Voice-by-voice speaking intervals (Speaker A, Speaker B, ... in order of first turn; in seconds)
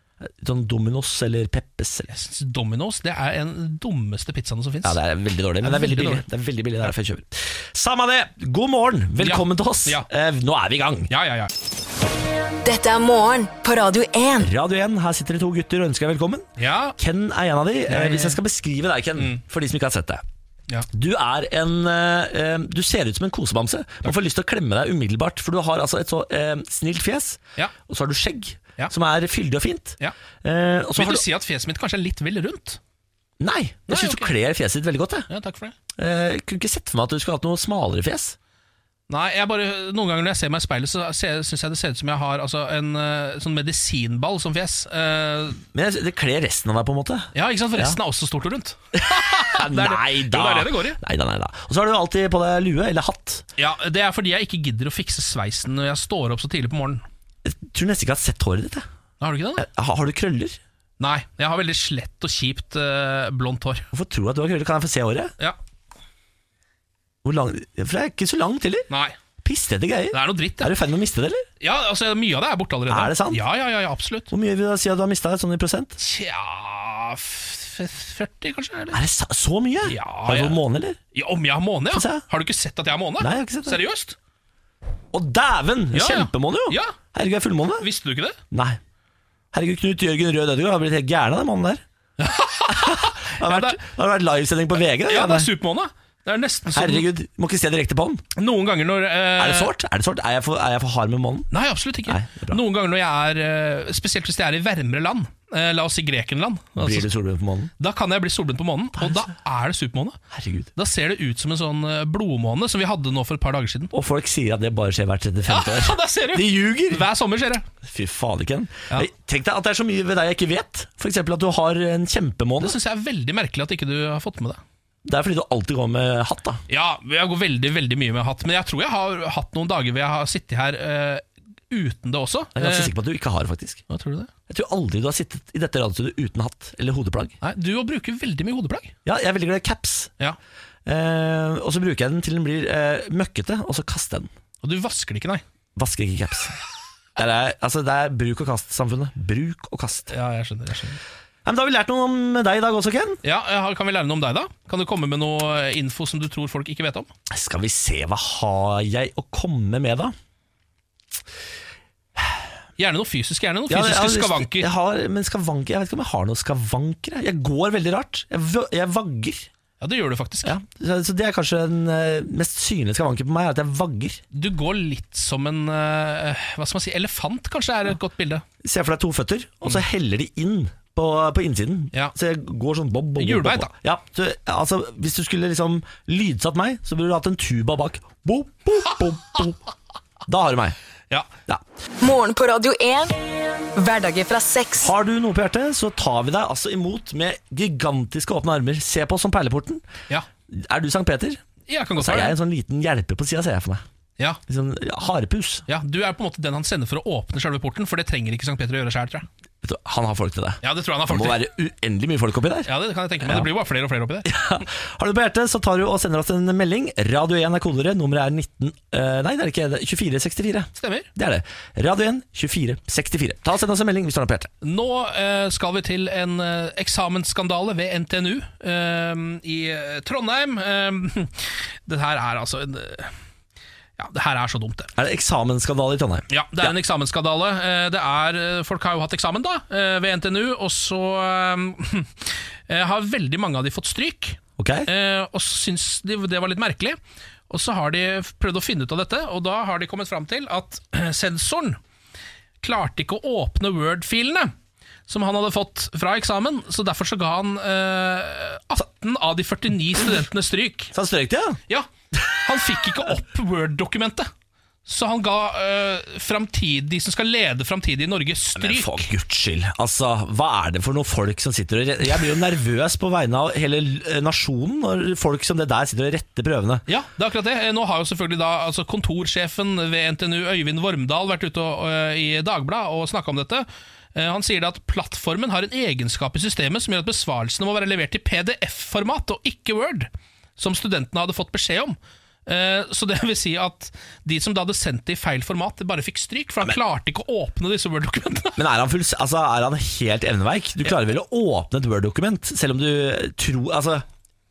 Speaker A: 0.2-2.1, 4.8-11.1, 14.4-20.2, 20.9-31.2, 33.4-35.3, 36.0-38.4, 45.7-48.0, 48.9-53.4, 57.4-58.9, 59.6-60.6, 63.9-65.3, 67.2-68.9, 69.4-71.5, 72.9-73.4, 74.3-76.0, 78.9-81.0, 81.9-82.2, 83.2-83.8, 85.1-87.9, 88.5-88.8, 89.5-91.8, 92.7-95.5, 96.7-98.2, 99.4-101.5, 102.0-102.6, 106.8-107.7, 110.3-110.7, 113.9-117.1, 117.8-122.8, 125.0-126.6, 132.5-133.8, 134.5-137.4, 139.0-140.1, 140.8-144.3, 145.8-146.6, 147.2-150.1, 151.4-153.2, 157.3-160.1, 163.7-169.5, 170.4-174.2, 178.6-189.6, 190.2-190.8, 194.8-199.8, 200.5-201.4, 202.0-203.8, 204.5-205.6, 209.6-213.5, 214.2-224.5, 234.9-236.7, 244.6-244.9, 260.9-261.6, 268.5-276.8, 298.6-304.0
Speaker B: 2.1-5.0, 5.6-6.2, 9.2-10.1, 11.1-11.5, 16.6-16.9, 17.9-18.4, 19.1-19.4, 30.9-32.8, 33.9-34.3, 35.3-35.7, 39.1-45.6, 47.3-51.0, 53.6-57.0, 59.2-59.6, 61.0-63.9, 68.9-69.2, 70.1-70.7, 71.6-74.3, 76.0-79.0, 79.8-80.6, 81.1-84.2, 85.9-87.0, 87.8-88.4, 92.2-93.8, 95.0-97.1, 98.3-99.7, 101.5-107.1, 107.8-110.2, 110.8-113.9, 115.5-117.7, 122.6-124.6, 126.7-132.9, 133.9-134.3, 137.4-138.9, 144.6-145.4, 150.1-151.0, 153.2-157.1, 162.8-164.7, 169.8-170.6, 174.3-178.4, 183.2-183.7, 201.7-202.4, 205.7-209.2, 210.6-211.4, 212.6-214.3, 220.8-221.1, 224.6-233.1, 234.0-234.9, 236.3-247.0, 247.5-251.8, 252.6-254.5, 255.1-260.9, 261.7-264.3, 264.9-269.1, 276.9-298.6
Speaker C: 12.6-14.5, 192.0-193.2, 193.7-194.9